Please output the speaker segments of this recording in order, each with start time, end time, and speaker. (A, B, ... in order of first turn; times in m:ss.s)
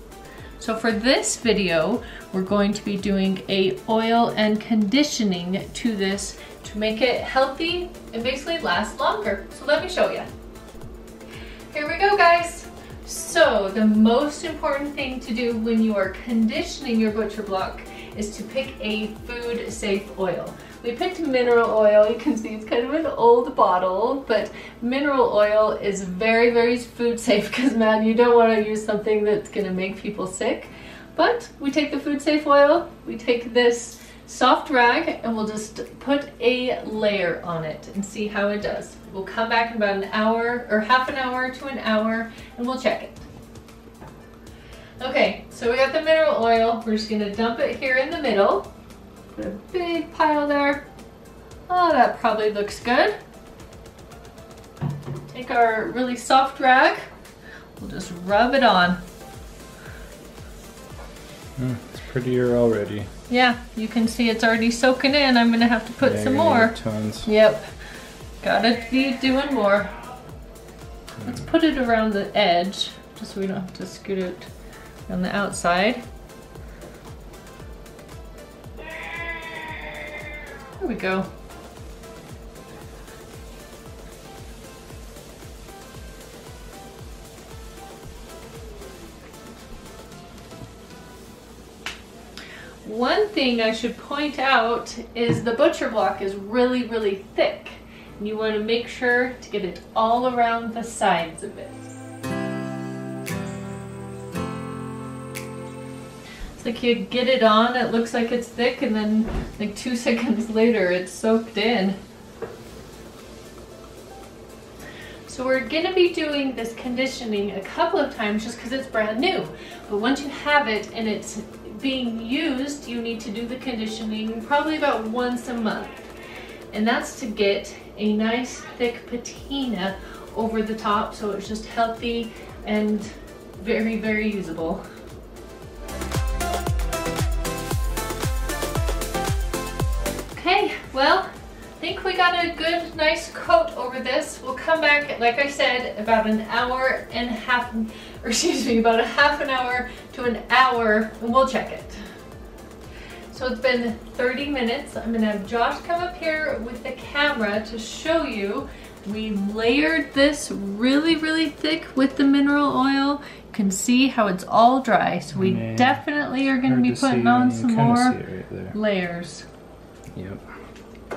0:00.6-0:10.3 A
0:11.7-0:43.2 A
0:45.0-0:48.7 A
0:49.3-0:50.8 A
0:51.7-0:53.1 A
0:55.3-0:57.0 A
0:57.8-0:59.0 A
1:01.6-1:03.1 B
1:03.3-1:07.7 A
1:06.0-1:07.3 B
1:08.4-1:09.9 A
1:11.2-1:14.5 A
1:15.1-1:16.0 A
1:20.8-1:21.3 A
1:32.8-1:41.8 A
1:46.6-1:52.0 A
1:55.3-2:06.0 A
2:06.7-2:14.8 A
2:20.3-2:21.3 A
2:21.8-2:32.0 A
2:33.3-2:48.2 A
2:45.4-2:46.0 B
2:46.6-2:48.8 B
2:48.7-2:49.4 A
2:50.1-2:50.4 B